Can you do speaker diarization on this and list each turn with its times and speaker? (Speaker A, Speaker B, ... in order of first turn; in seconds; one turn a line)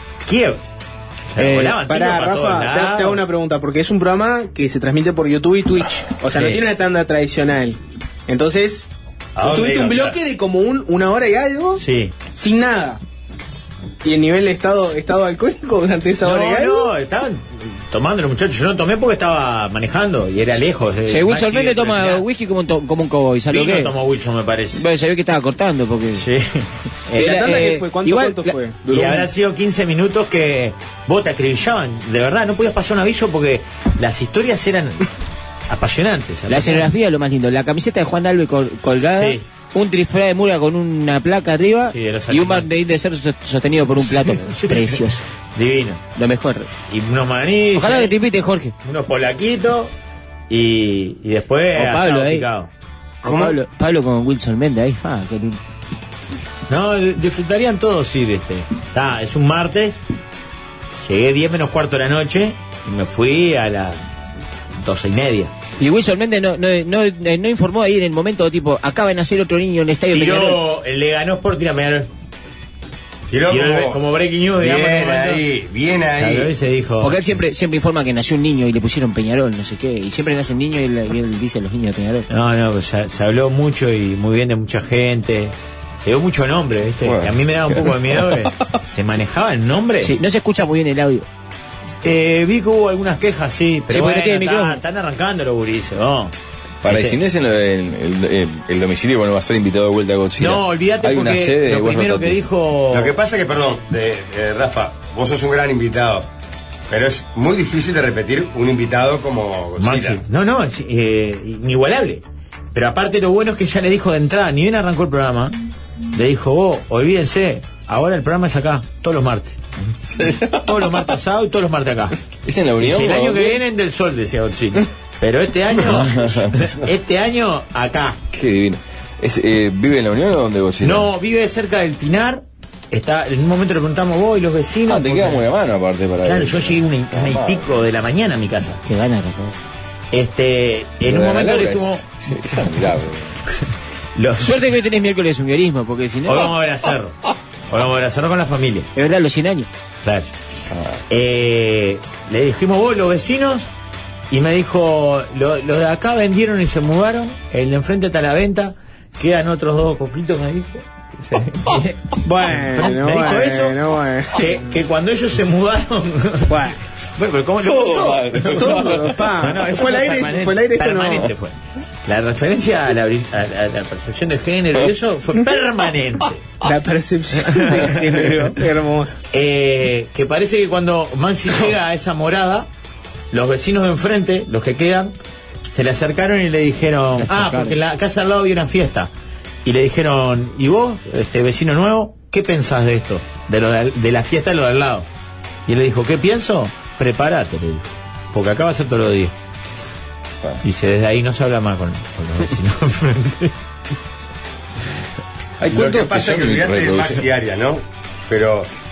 Speaker A: 0.2-0.6
Speaker A: 1.3-3.2
Speaker B: 1.4-1.8
Speaker C: 1.8-8.9
Speaker A: 6.3-6.6
Speaker D: 9.4-10.2
Speaker C: 9.4-11.8
Speaker A: 11.8-12.1
Speaker C: 12.3-13.0
Speaker C: 14.0-16.9
Speaker A: 16.2-22.2
Speaker B: 21.1-23.9
Speaker A: 23.5-24.9
Speaker B: 24.7-26.2
Speaker A: 26.1-27.6
Speaker B: 27.1-28.5
Speaker C: 27.1-29.3
Speaker A: 28.9-35.1
Speaker A: 35.7-36.9
Speaker B: 36.5-45.2
Speaker A: 39.0-39.4
Speaker A: 41.9-42.7
Speaker A: 44.2-45.0
Speaker A: 45.5-46.0
Speaker B: 46.1-46.7
Speaker A: 46.9-48.2
Speaker B: 47.7-48.7
Speaker A: 48.8-49.9
Speaker A: 50.5-52.7
Speaker B: 51.7-52.5
Speaker D: 53.2-53.6
Speaker B: 53.2-55.6
Speaker A: 56.7-60.0
Speaker A: 61.0-64.0
Speaker A: 64.8-65.5
Speaker B: 65.8-70.6
Speaker A: 70.1-72.1
Speaker D: 73.3-74.0
Speaker A: 73.5-75.4
Speaker D: 74.6-76.5
Speaker A: 76.1-77.2
Speaker B: 77.0-82.3
Speaker A: 82.3-90.2
Speaker E: 87.0-88.4
Speaker B: 90.0-91.2
Speaker A: 92.0-96.3
Speaker B: 93.9-94.8
Speaker E: 96.8-102.4
Speaker A: 96.8-97.2
Speaker A: 100.4-103.1
Speaker D: 102.9-106.3
Speaker D: 106.9-110.2
Speaker A: 109.8-112.2
Speaker A: 112.7-115.5
Speaker A: 116.1-119.6
Speaker E: 120.1-121.0
Speaker A: 120.6-122.1
Speaker E: 122.4-123.6
Speaker A: 122.8-128.2
Speaker E: 125.8-126.6
Speaker E: 128.3-131.1
Speaker A: 130.8-135.4
Speaker E: 134.9-137.7
Speaker A: 136.2-138.8
Speaker B: 138.8-139.5
Speaker A: 140.1-142.0
Speaker E: 141.0-143.3
Speaker A: 144.2-144.6
Speaker B: 144.4-146.5
Speaker A: 146.2-147.1
Speaker A: 147.7-148.9
Speaker B: 148.9-149.7
Speaker A: 150.0-150.3
Speaker E: 150.7-151.0
Speaker A: 151.1-153.7
Speaker A: 154.3-166.5
Speaker C: 162.2-164.6
Speaker C: 166.5-166.8
Speaker A: 167.2-176.4
Speaker E: 167.6-169.2
Speaker C: 168.6-171.3
Speaker C: 176.6-179.2
Speaker A: 179.3-182.7
Speaker A: 183.3-185.1
Speaker A: 185.7-189.1
Speaker B: 187.3-187.7
Speaker A: 189.6-195.1
Speaker A: 195.7-199.3
Speaker A: 200.6-203.5
Speaker E: 205.6-207.2
Speaker D: 205.7-208.7